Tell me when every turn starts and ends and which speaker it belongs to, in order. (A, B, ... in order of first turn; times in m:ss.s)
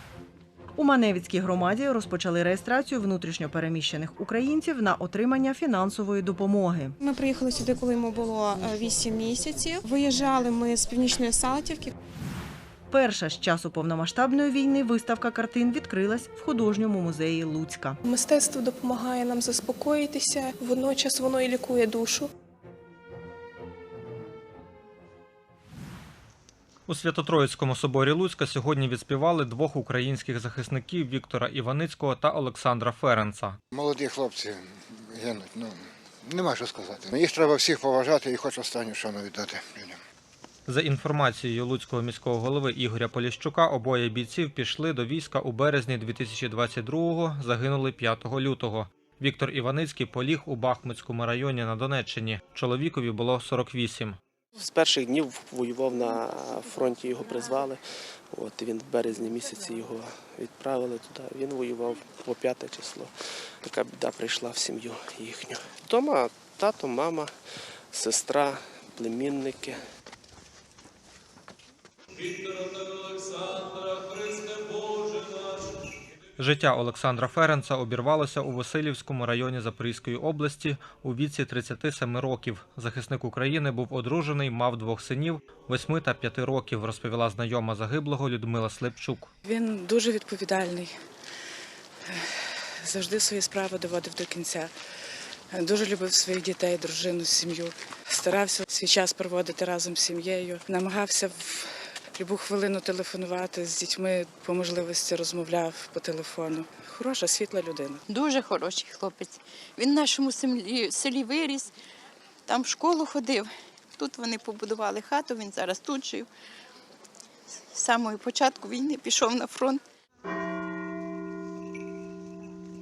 0:00.8-0:06.9 A
0:07.0-0:11.9 B
0:12.9-0:18.0 A
0:18.0-0:22.3 C
0:26.9-0:33.6 D
0:33.7-0:40.0 E
0:40.7-0:54.2 D
0:54.6-0:57.8 F
0:58.3-1:03.1 F
1:03.6-1:07.3 F
1:07.9-1:09.8 F
1:16.4-1:29.3 D
1:29.4-1:30.9 G
1:32.8-1:34.7 G
1:35.5-1:48.0 G
1:48.1-1:51.7 H
1:52.5-1:56.3 H
1:57.7-1:59.8 H